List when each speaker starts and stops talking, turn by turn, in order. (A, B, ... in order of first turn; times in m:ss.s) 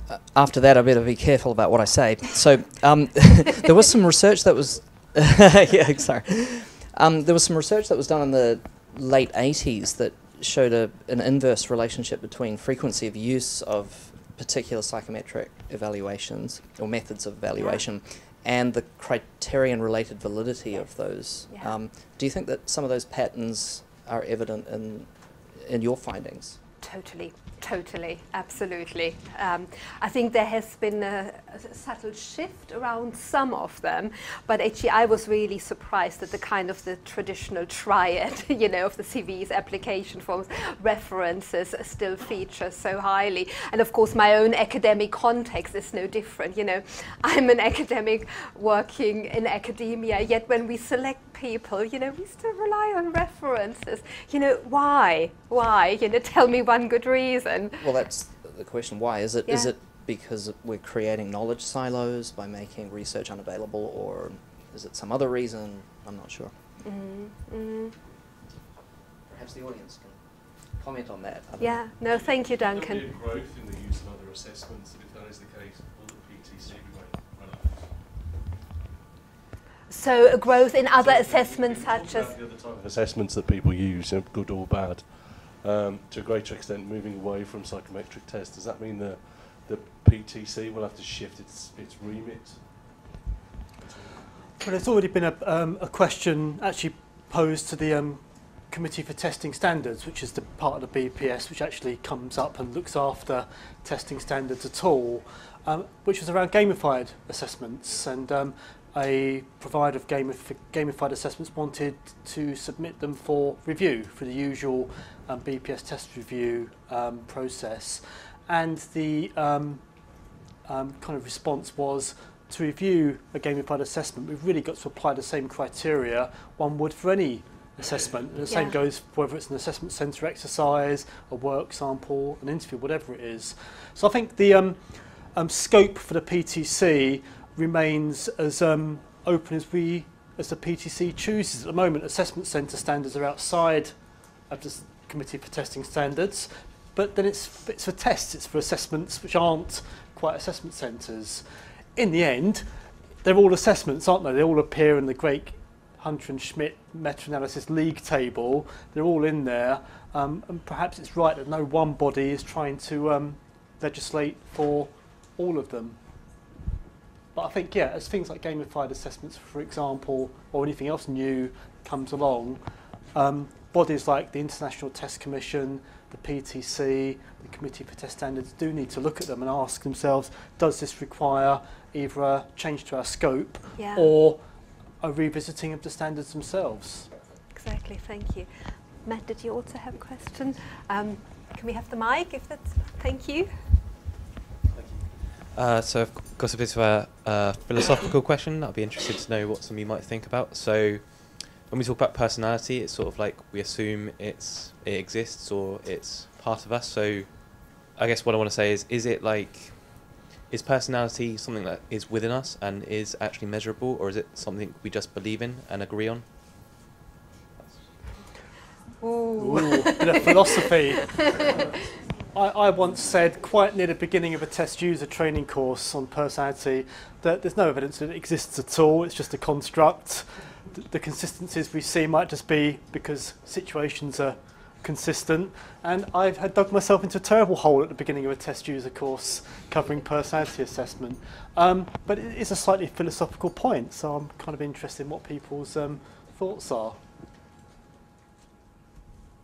0:00.1-0:26.6 A
0:17.6-0:17.8 B
0:21.5-0:21.8 B
0:26.8-0:57.8 B
0:57.8-1:06.5 A
0:59.4-0:59.7 B
1:06.8-1:07.9 B
1:09.3-1:11.9 A
1:11.6-1:13.1 B
1:12.0-1:17.9 C
1:19.9-1:22.3 B
1:20.9-1:32.8 C
1:34.6-1:59.8 D
2:00.6-2:24.0 D
2:08.5-2:08.8 B
2:24.5-2:31.4 D
2:32.0-2:32.6 D
2:33.2-2:46.0 D
2:47.3-2:52.6 D
2:53.1-3:04.4 D
3:03.8-3:04.1 B
3:05.0-3:07.1 D
3:07.5-3:08.5 B
3:09.0-3:13.5 B
3:15.5-3:36.2 E
3:39.0-3:41.5 B
3:39.4-3:41.4 D
3:42.3-4:07.0 D